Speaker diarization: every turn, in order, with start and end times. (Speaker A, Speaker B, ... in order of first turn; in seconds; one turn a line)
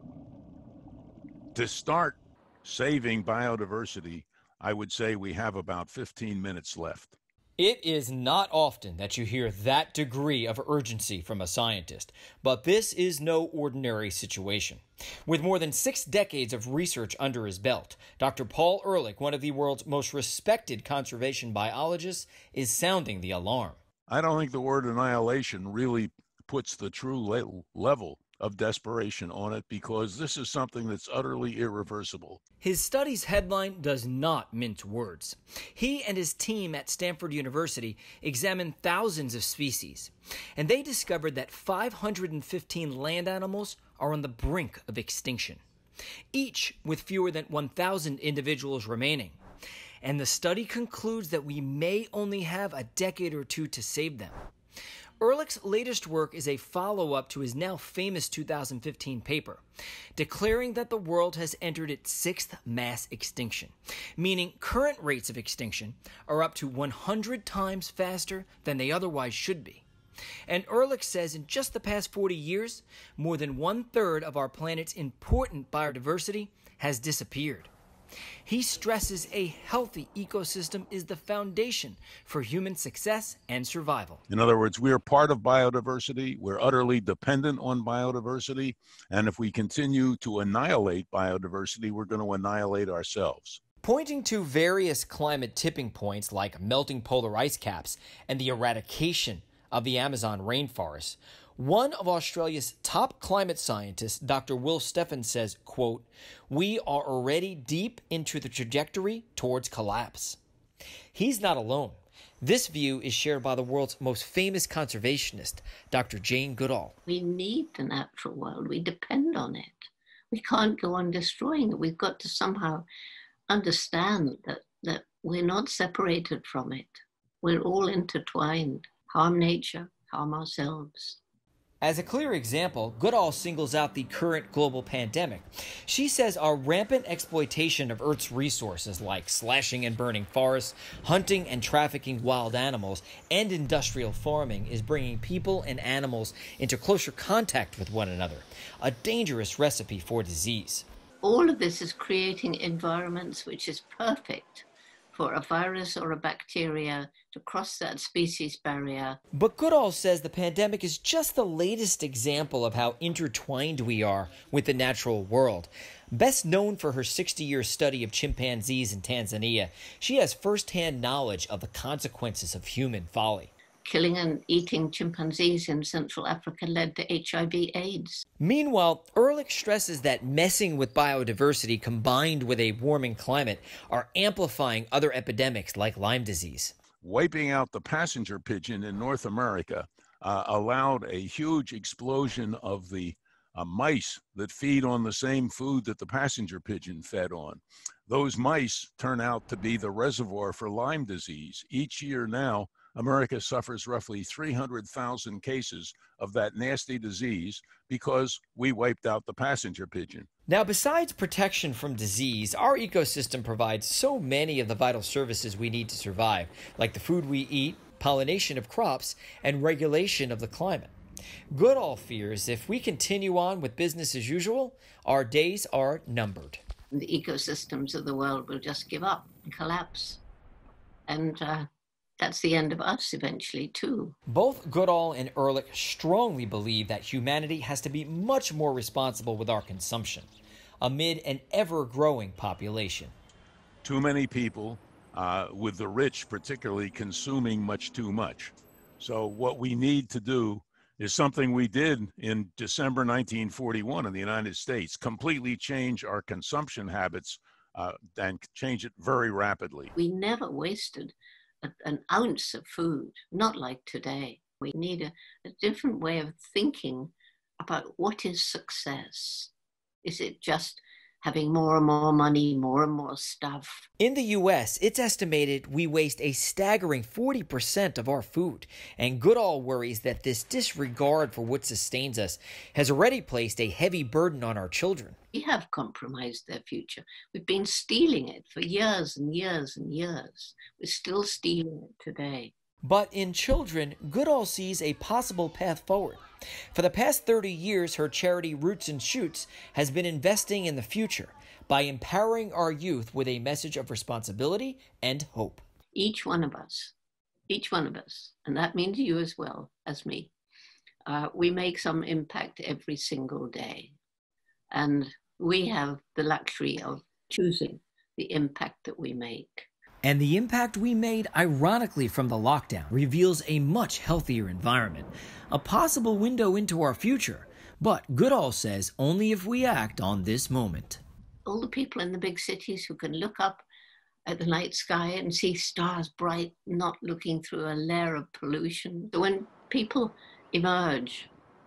Speaker A: 1.6-7.2
Speaker B: 7.6-23.8
Speaker A: 24.1-32.4
Speaker B: 32.6-45.6
Speaker B: 46.3-49.4
Speaker B: 50.0-54.4
Speaker B: 55.2-59.6
Speaker B: 60.2-69.8
Speaker B: 70.5-77.7
Speaker B: 78.5-84.2
Speaker A: 84.3-93.6
Speaker B: 93.8-110.4
Speaker B: 111.1-117.0
Speaker C: 117.1-122.9
Speaker C: 123.5-131.2
Speaker B: 131.8-150.9
Speaker C: 151.2-159.2
Speaker B: 159.3-173.5
Speaker C: 173.8-178.2
Speaker B: 178.4-186.7
Speaker A: 187.0-210.3
Speaker B: 210.5-220.9
Speaker B: 221.5-226.6
Speaker C: 226.9-230.2
Speaker C: 231.1-231.7
Speaker C: 232.2-234.2
Speaker B: 234.3-240.3
Speaker B: 240.8-243.1
Speaker A: 243.8-259.9
Speaker C: 259.9-269.5
Speaker C: 270.0-273.9
Speaker B: 274.0-285.2
Speaker C: 285.3-292.5
Speaker B: 292.8-296.2
Speaker B: 296.7-305.6
Speaker C: 305.9-306.9
Speaker C: 307.5-310.3
Speaker C: 311.1-314.0
Speaker C: 314.7-319.7
Speaker B: 320.0-331.0
Speaker C: 331.5-333.7
Speaker C: 334.3-341.3